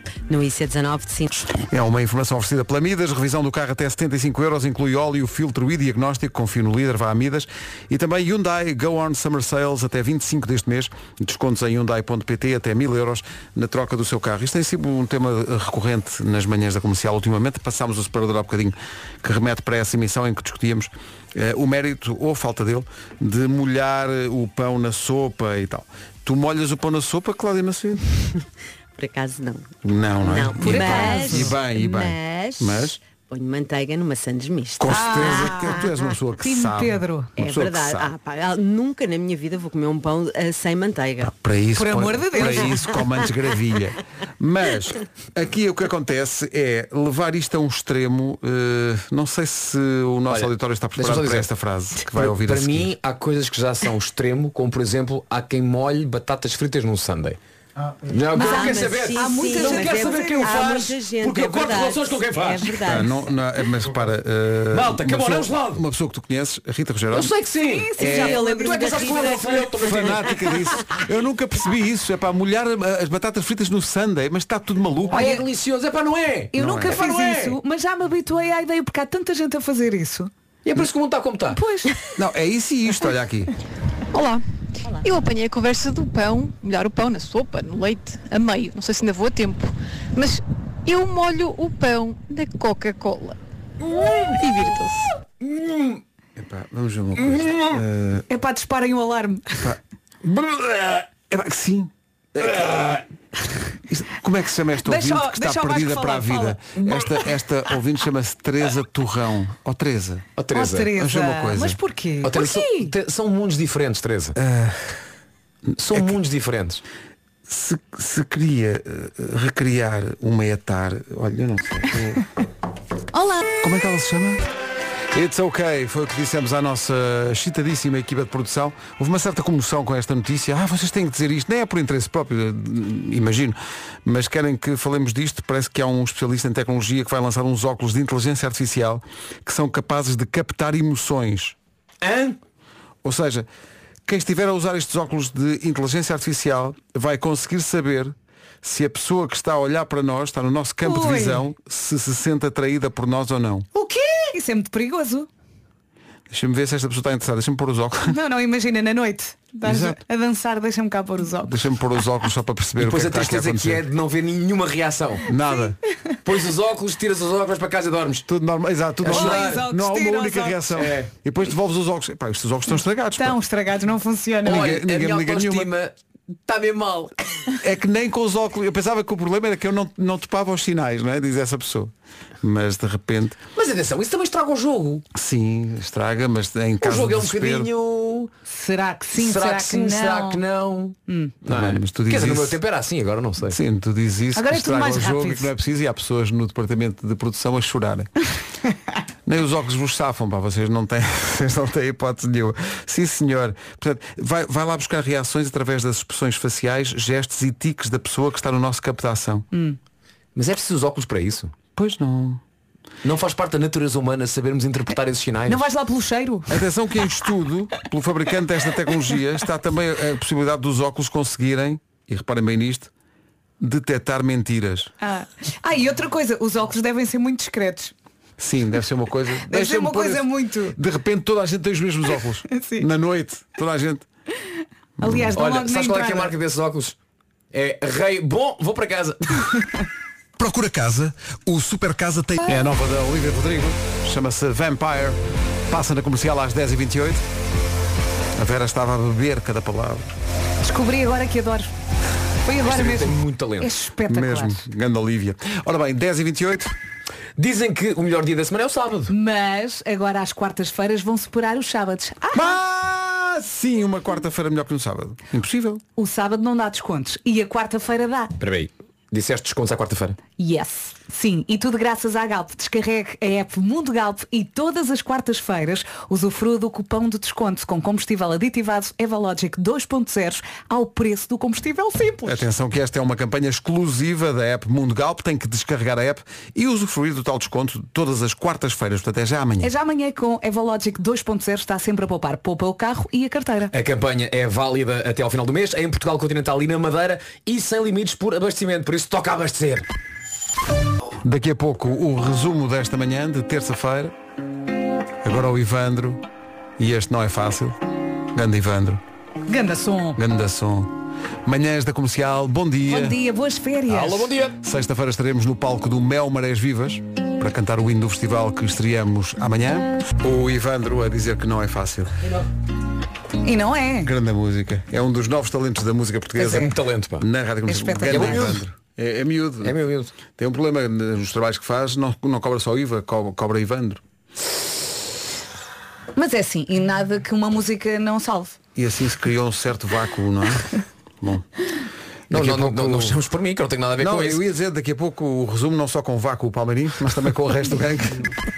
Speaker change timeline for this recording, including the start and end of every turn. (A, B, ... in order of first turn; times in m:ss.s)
0:00.3-0:01.5 A
0:01.6-0:28.1 B
0:28.9-0:36.0 A
0:29.8-0:33.0 B
0:30.6-0:31.6 C
0:34.8-0:38.1 B
0:34.9-0:35.8 C
0:36.4-0:37.3 C
0:37.4-0:41.3 A
0:41.2-0:52.9 B
0:41.8-0:42.8 C
0:50.3-0:51.5 D
0:52.1-0:57.4 D
0:58.0-1:03.0 D
0:58.3-1:03.2 A
0:58.3-1:00.7 C
1:02.8-1:07.3 B
1:04.7-1:05.8 D
1:07.1-1:10.8 D
1:07.7-1:09.4 C
1:08.0-1:08.4 B
1:08.2-1:09.6 A
1:09.7-1:15.3 B
1:15.1-1:17.6 D
1:15.1-1:15.4 C
1:16.5-1:20.3 C
1:16.5-1:17.0 B
1:20.6-1:21.6 D
1:21.5-1:22.0 C
1:22.1-1:23.5 B
1:24.1-1:24.4 E
1:25.0-1:33.4 E
1:33.9-1:35.1 E
1:35.4-1:36.0 D
1:36.4-1:38.2 B
1:37.2-1:37.8 D
1:38.3-1:39.7 C
1:39.6-1:42.7 B
1:42.4-1:43.0 D
1:43.9-1:50.2 B
1:44.8-1:46.7 C
1:50.4-1:50.9 D
1:50.5-1:52.9 C
1:50.9-1:51.8 B
1:52.2-1:54.4 D
1:54.4-1:55.0 B
1:55.7-1:56.2 B
1:55.8-1:56.8 D
1:57.5-2:02.2 B
2:03.1-2:03.4 C
2:03.6-2:04.4 B
2:05.1-2:21.6 B
2:22.0-2:22.4 D
2:23.0-2:23.5 B
2:24.0-2:33.7 B
2:30.8-2:31.4 C
2:33.7-2:35.3 C
2:36.3-2:38.2 B
2:38.0-2:41.6 C
2:39.6-2:40.0 B
2:41.4-2:43.8 B
2:42.8-2:45.3 D
2:45.2-2:45.8 B
2:46.2-2:48.3 D
2:48.3-2:53.4 B
2:49.0-2:49.6 D
2:49.0-2:50.6 C
2:50.7-2:51.1 D
2:53.2-2:54.7 C
2:54.4-2:55.7 B
2:54.4-2:55.9 D
2:56.4-2:57.1 D
2:57.6-3:03.4 B
3:03.5-3:05.0 D
3:05.1-3:07.7 B
3:06.8-3:08.3 D
3:08.4-3:10.4 C
3:09.1-3:13.6 D
3:11.1-3:11.3 C
3:11.5-3:12.6 B
3:13.5-3:18.1 B
3:14.4-3:15.5 C
3:19.2-3:29.5 B
3:29.5-3:29.8 C
3:30.3-3:31.5 D
3:31.7-3:32.4 B
3:33.0-3:35.6 D
3:35.5-3:36.6 C
3:36.5-3:42.9 B
3:43.6-3:44.9 B
3:45.0-3:47.9 C
3:48.4-3:54.0 B
3:49.5-3:50.8 C
3:52.5-3:52.9 C
3:55.0-3:56.3 C
3:55.0-3:55.3 B
3:55.3-3:56.9 D
3:57.5-3:59.6 D
4:00.4-4:07.2 B
4:08.3-4:10.1 B
4:10.6-4:11.7 C
4:12.4-4:14.6 C
4:12.6-4:13.7 D
4:14.1-4:16.8 B
4:17.4-4:19.1 D
4:19.1-4:22.6 C
4:22.3-4:25.8 B
4:26.0-4:28.3 C
4:28.4-4:30.2 D
4:30.4-4:42.4 C
4:42.2-4:49.7 B
4:49.6-4:53.7 C
4:53.7-4:59.9 D
5:01.2-5:04.1 B
5:05.2-5:06.2 B
5:06.8-5:07.8 B
5:08.3-5:09.0 B
5:09.5-5:10.2 C
5:10.2-5:10.9 B
5:11.4-5:13.2 B
5:12.9-5:14.3 C
5:13.9-5:14.6 D
5:14.6-5:22.3 B
5:23.4-5:24.1 C
5:24.0-5:29.8 B
5:26.4-5:27.3 D
5:27.7-5:28.6 C
5:28.1-5:28.6 D
5:29.6-5:30.1 D
5:30.4-5:34.0 B
5:36.2-5:38.6 C
5:38.7-5:41.5 B
5:42.3-5:43.2 B
5:42.3-5:44.4 D
5:44.0-5:48.3 B